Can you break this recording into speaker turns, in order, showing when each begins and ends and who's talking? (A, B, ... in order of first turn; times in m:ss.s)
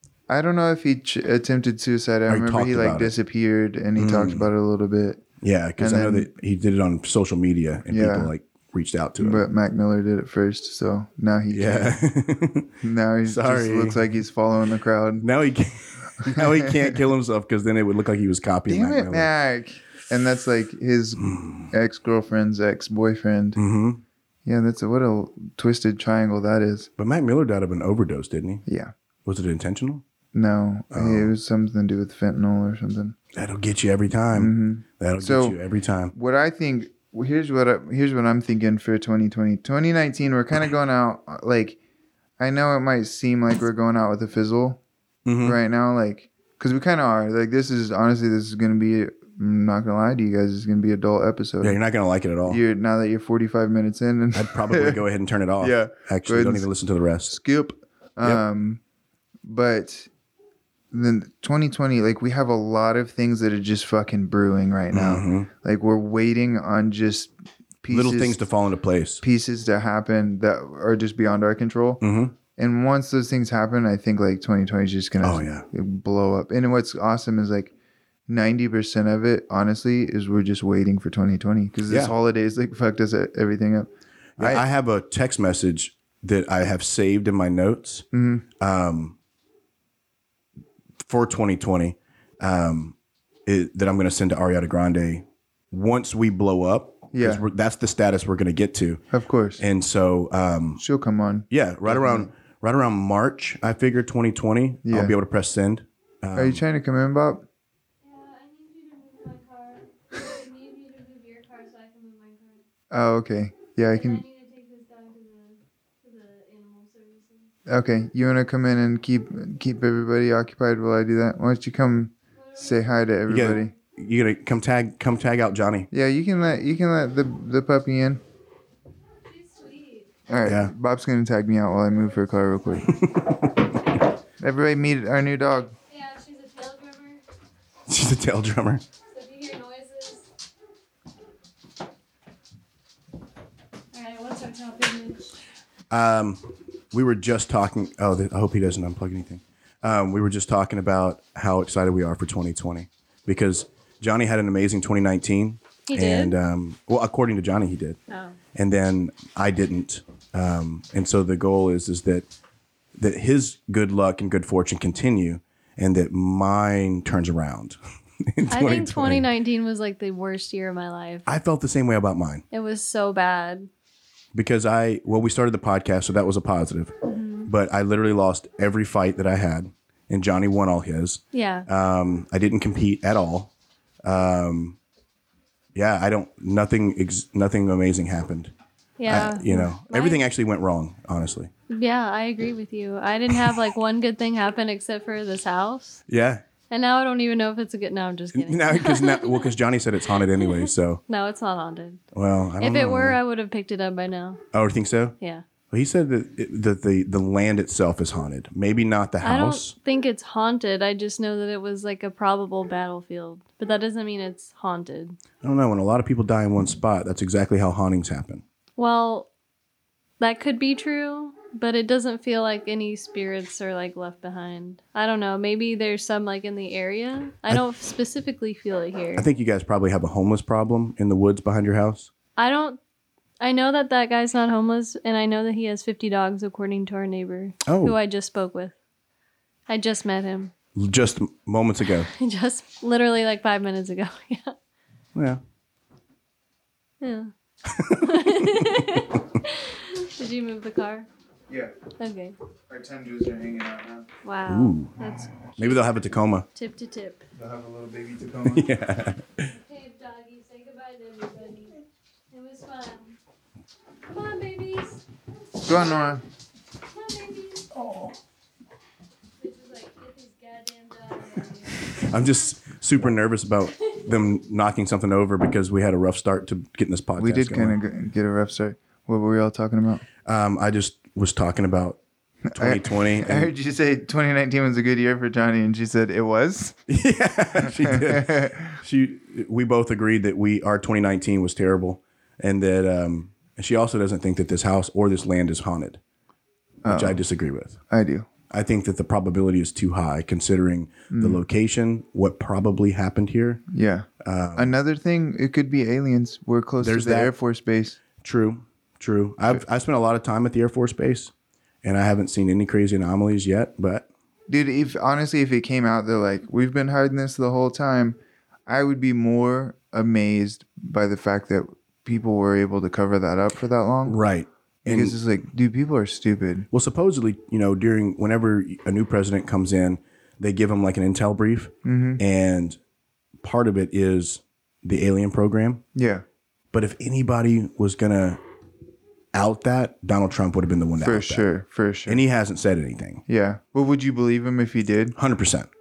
0:00.3-0:05.2 A
0:02.3-0:03.1 B
0:04.0-0:04.5 B
0:05.4-0:09.4 B
0:05.8-0:06.3 A
0:07.9-0:08.3 A
0:09.2-0:12.0 A
0:11.5-0:12.7 B
0:12.8-0:15.2 A
0:13.2-0:14.0 B
0:15.2-0:19.3 B
0:16.3-0:16.7 A
0:18.7-0:23.6 A
0:21.2-0:21.7 B
0:23.6-0:24.0 B
0:24.4-0:26.9 A
0:27.0-0:28.6 B
0:28.6-0:28.9 A
0:29.2-0:30.0 B
0:30.3-0:33.2 A
0:30.9-0:31.3 B
0:33.3-0:36.1 B
0:34.3-0:35.6 A
0:36.1-0:41.8 A
0:42.4-0:44.8 A
0:45.2-0:45.6 B
0:45.4-0:51.8 A
0:51.6-0:52.6 B
0:52.4-0:55.0 A
0:54.3-0:57.3 B
0:55.6-0:56.7 A
0:57.2-0:58.8 A
0:59.4-1:00.1 A
1:00.9-1:08.4 A
1:04.9-1:05.5 B
1:07.9-1:09.2 B
1:09.2-1:12.0 A
1:12.0-1:12.3 B
1:12.6-1:17.7 A
1:15.2-1:15.6 B
1:18.3-1:24.6 A
1:21.9-1:22.1 B
1:24.4-1:28.0 B
1:28.1-1:28.4 A
1:28.6-1:29.1 B
1:31.0-1:32.9 B
1:33.4-1:39.0 B
1:37.1-1:37.4 A
1:39.1-1:39.6 A
1:39.6-1:40.8 B
1:40.8-1:42.3 A
1:41.5-1:46.6 B
1:44.8-1:45.2 A
1:46.3-1:47.4 A
1:48.0-1:52.6 C
1:52.9-1:54.2 A
1:53.9-1:57.5 C
1:57.7-2:03.7 A
2:02.3-2:03.7 C
2:03.3-2:05.9 B
2:05.9-2:08.2 A
2:09.2-2:10.2 C
2:10.3-2:13.0 A
2:10.4-2:10.7 B
2:11.9-2:13.2 C
2:14.4-2:15.7 A
2:15.9-2:17.2 C
2:17.9-2:18.8 B
2:19.0-2:20.3 C
2:23.9-2:25.3 C
2:25.9-2:38.0 B
2:35.9-2:36.3 C
2:38.1-2:38.4 C
2:38.5-2:42.2 B
2:43.0-2:49.2 B
2:48.5-2:51.3 C
2:51.2-2:52.4 B
2:52.5-2:53.7 C
2:54.3-2:56.9 B
2:57.0-2:57.5 C
2:57.4-3:03.5 B
3:01.3-3:01.7 C
3:04.0-3:04.8 B
3:05.7-3:08.5 B
3:09.0-3:10.2 C
3:09.1-3:11.5 B
3:11.7-3:16.0 C
3:16.1-3:16.4 B
3:16.7-3:19.5 C
3:18.3-3:21.0 B
3:20.1-3:22.0 C
3:22.1-3:23.2 B
3:22.6-3:24.4 C
3:24.5-3:25.1 B
3:25.7-3:29.7 B
3:29.2-3:35.2 C
3:35.4-3:38.4 B
3:38.8-3:39.3 C
3:40.2-3:49.2 C
3:49.1-3:52.1 B
3:52.4-3:52.8 C
3:53.4-3:58.7 C
3:57.6-3:58.0 B
3:59.7-4:00.5 C
4:00.7-4:02.1 B
4:02.0-4:04.5 C
4:05.1-4:05.4 B
4:07.0-4:07.3 C
4:07.7-4:08.8 B
4:07.9-4:11.1 C
4:12.0-4:12.3 C
4:12.7-4:14.0 A
4:14.2-4:17.2 C
4:14.5-4:16.4 B
4:17.4-4:18.7 A
4:18.4-4:19.5 B
4:19.4-4:23.2 C
4:24.0-4:25.0 C
4:25.6-4:26.2 A
4:26.8-4:27.8 C
4:27.8-4:28.1 A
4:29.4-4:32.2 C
4:32.0-4:37.8 B
4:37.2-4:40.0 A
4:40.2-4:42.0 B
4:42.5-4:46.8 A
4:42.5-4:43.5 B
4:46.9-4:56.0 B
4:47.6-4:48.8 A
4:56.8-4:57.2 A
4:56.8-4:57.8 B
4:57.9-4:58.3 A
4:58.5-5:03.6 B
5:01.1-5:01.4 A
5:03.7-5:08.0 A
5:04.2-5:04.7 B
5:06.8-5:07.3 B
5:08.2-5:11.3 B
5:11.8-5:14.0 B
5:14.5-5:24.2 A
5:24.0-5:25.2 B
5:24.8-5:26.7 A
5:26.7-5:32.8 B
5:31.8-5:32.2 A
5:33.4-5:35.8 B
5:35.9-5:36.2 A
5:36.7-5:38.4 B
5:39.3-5:41.5 B
5:41.0-5:42.2 A
5:42.1-5:43.2 B
5:43.3-5:45.1 A
5:45.1-5:45.7 B